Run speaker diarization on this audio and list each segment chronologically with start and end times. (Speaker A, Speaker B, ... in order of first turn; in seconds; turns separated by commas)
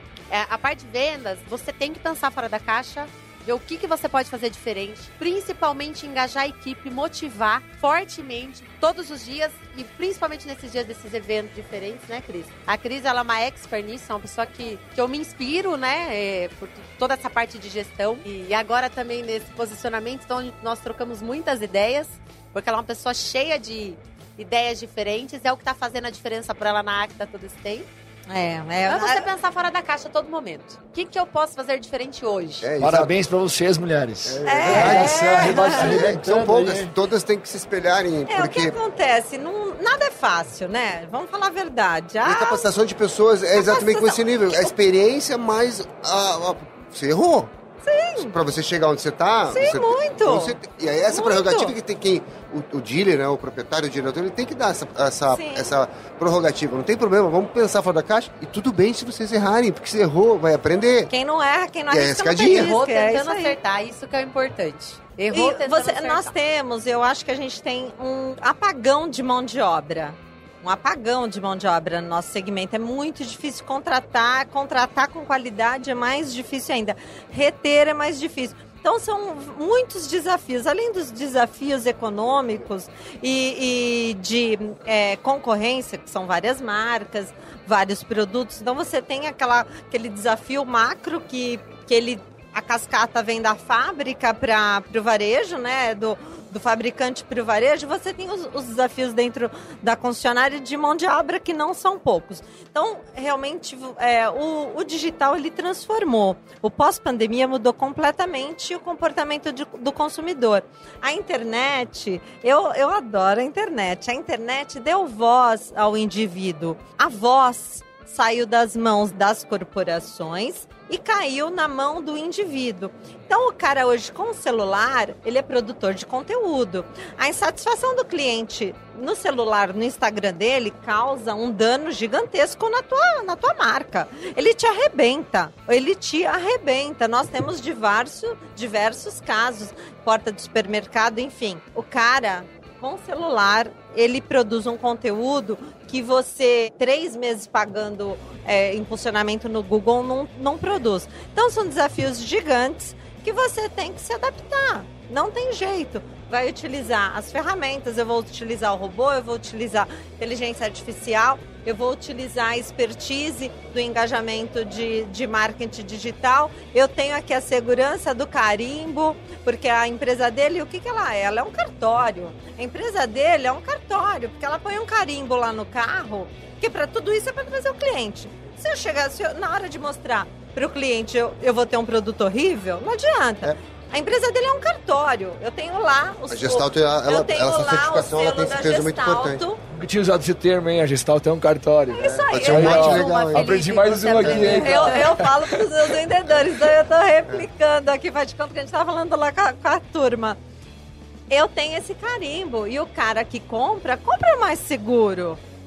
Speaker A: 0.3-27.9, Speaker B: 28.3-29.3, Speaker A: 28.9-32.7, Speaker C: 32.6-33.1, Speaker D: 32.8-36.9, Speaker C: 34.2-38.8, Speaker B: 34.4-35.9, Speaker B: 38.3-42.6, Speaker C: 42.2-47.5, Speaker B: 43.5-44.7, Speaker B: 47.8-48.4, Speaker C: 48.1-61.1, Speaker B: 49.5-51.7, Speaker B: 55.3-55.7, Speaker B: 61.1-63.6, Speaker C: 61.9-62.7, Speaker A: 62.4-66.3, Speaker B: 65.3-189.6, Speaker C: 186.3-189.4, Speaker D: 189.7-195.7, Speaker B: 191.9-193.3, Speaker C: 191.9-193.6, Speaker A: 192.3-195.0, Speaker C: 194.2-194.6, Speaker B: 194.4-200.4, Speaker B: 201.3-205.4